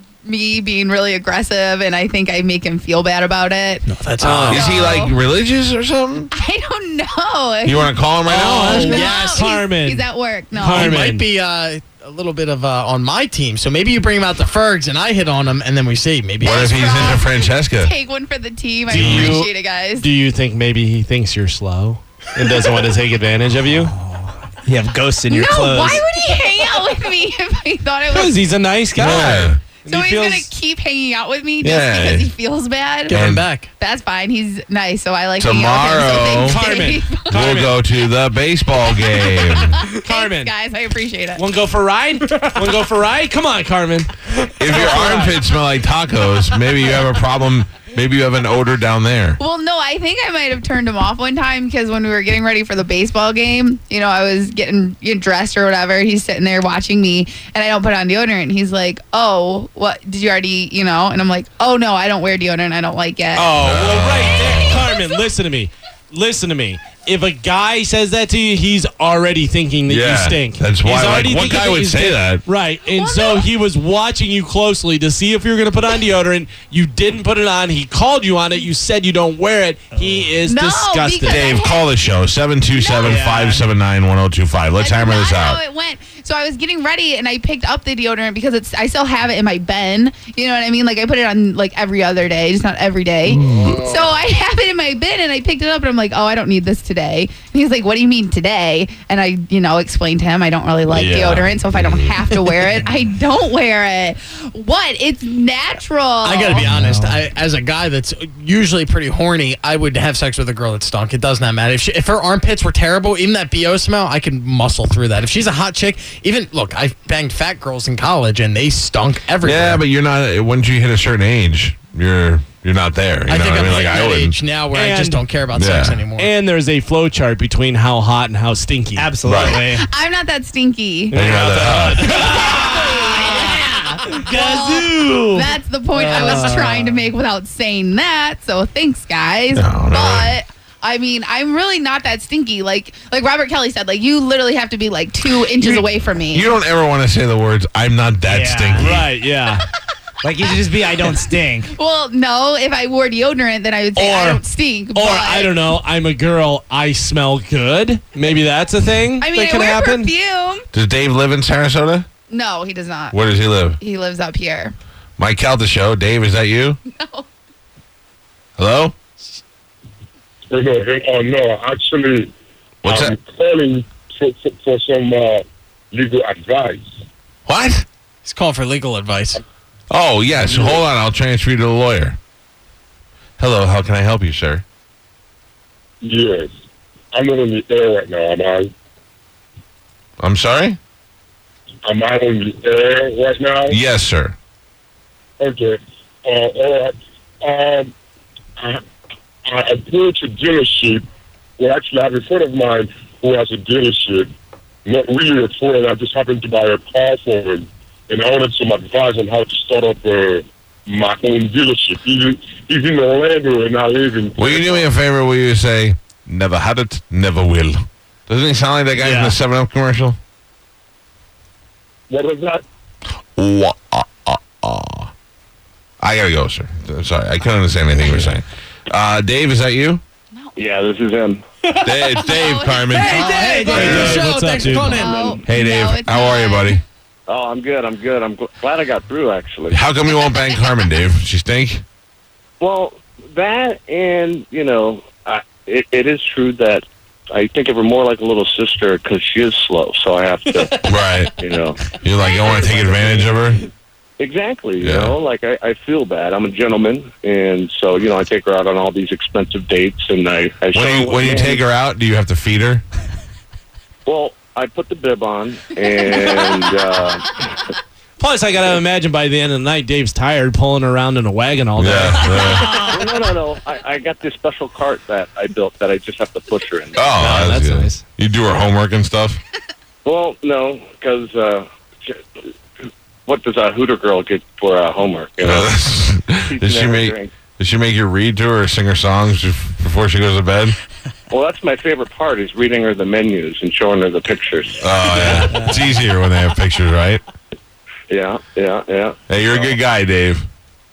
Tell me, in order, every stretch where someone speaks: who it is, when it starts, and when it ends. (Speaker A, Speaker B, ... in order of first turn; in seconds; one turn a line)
Speaker A: 0.2-3.8
Speaker B: 3.9-4.7
Speaker C: 4.2-4.7
Speaker A: 4.5-5.2
Speaker D: 4.5-6.3
Speaker A: 6.3-7.9
Speaker D: 7.6-9.0
Speaker C: 8.2-11.2
Speaker A: 8.6-10.9
Speaker B: 8.8-9.4
Speaker B: 10.7-17.1
Speaker D: 16.4-17.9
Speaker A: 16.4-20.1
Speaker C: 18.9-24.0
Speaker D: 18.9-19.4
Speaker E: 23.8-26.1
Speaker A: 25.3-28.4
Speaker C: 28.1-30.5
Speaker D: 28.9-29.6
Speaker A: 29.0-33.2
Speaker D: 31.6-32.3
Speaker B: 33.1-33.7
Speaker D: 33.1-33.4
Speaker A: 33.8-37.4
Speaker D: 35.4-36.6
Speaker C: 36.4-37.8
Speaker D: 37.3-39.8
Speaker A: 38.9-41.4
Speaker C: 39.9-40.5
Speaker C: 41.3-45.4
Speaker D: 44.6-49.4
Speaker A: 49.4-63.5
Speaker D: 63.4-64.8
Speaker C: 63.5-81.5
Speaker D: 69.9-72.4
Speaker A: 72.9-73.5
Speaker A: 80.4-81.9
Speaker D: 81.2-85.6
Speaker A: 82.7-83.2
Speaker E: 83.0-83.6
Speaker A: 84.8-106.7
Speaker D: 93.3-93.8
Speaker F: 93.5-93.9
Speaker D: 100.9-102.4
Speaker B: 106.2-119.8
Speaker C: 106.7-107.1
Speaker D: 119.4-124.3
Speaker B: 123.2-126.3
Speaker C: 124.7-125.2
Speaker D: 125.5-126.0
Speaker C: 126.2-129.2
Speaker E: 128.9-129.9
Speaker D: 129.2-129.6
Speaker A: 129.4-131.2
Speaker D: 131.1-132.2
Speaker C: 131.1-135.2
Speaker E: 132.0-137.1
Speaker A: 132.1-133.6
Speaker A: 134.2-146.5
Speaker D: 139.6-140.3
Speaker D: 145.5-149.0
Speaker E: 148.3-148.9
Speaker C: 148.8-149.6
Speaker E: 150.2-151.7
Speaker A: 150.4-150.7
Speaker A: 151.7-155.5
Speaker C: 154.0-154.4
Speaker C: 154.9-160.1
Speaker A: 159.2-160.7
Speaker D: 160.7-162.1
Speaker A: 162.3-163.2
Speaker D: 163.1-163.8
Speaker A: 163.8-164.7
Speaker D: 165.2-166.8
Speaker A: 166.8-167.2
Speaker D: 168.6-168.9
Speaker G: 170.5-172.3
Speaker D: 172.8-173.1
Speaker G: 172.8-176.9
Speaker D: 177.5-177.8
Speaker B: 178.2-179.4
Speaker D: 179.9-182.2
Speaker G: 180.4-180.8
Speaker D: 183.4-184.6
Speaker G: 186.0-186.5
Speaker G: 187.1-188.7
Speaker D: 190.2-190.8
Speaker G: 191.8-193.7
Speaker D: 193.7-194.3
Speaker G: 195.4-197.9
Speaker G: 199.5-201.0
Speaker G: 201.6-204.3
Speaker G: 204.8-214.9
Speaker D: 214.4-220.2
Speaker C: 219.0-219.3
Speaker G: 222.1-222.6
Speaker D: 223.3-225.1
Speaker D: 226.0-230.0
Speaker A: 230.3-230.6
Speaker F: 230.6-231.4
Speaker D: 231.8-234.2
Speaker A: 232.1-233.8
Speaker B: 232.9-235.2
Speaker E: 233.3-234.1
Speaker C: 233.7-235.1
Speaker A: 234.8-236.8
Speaker F: 235.1-235.4
Speaker D: 235.4-236.8
Speaker F: 237.3-239.8
Speaker D: 239.7-241.8
Speaker A: 240.3-240.6
Speaker F: 242.6-251.8
Speaker D: 250.8-251.3
Speaker D: 252.0-253.7
Speaker A: 252.2-252.6
Speaker F: 252.6-253.4
Speaker F: 254.2-261.6
Speaker D: 254.8-255.1
Speaker D: 260.7-262.8
Speaker F: 264.1-267.2
Speaker C: 266.1-266.7
Speaker C: 268.2-272.9
Speaker D: 271.8-272.8
Speaker F: 272.5-277.4
Speaker D: 276.9-279.4
Speaker C: 277.2-278.0
Speaker F: 280.0-282.2
Speaker F: 283.2-285.7
Speaker D: 285.4-290.8
Speaker F: 286.5-287.3
Speaker F: 291.3-295.5
Speaker D: 294.8-297.2
Speaker E: 295.5-295.8
Speaker F: 298.1-299.8
Speaker D: 299.3-300.5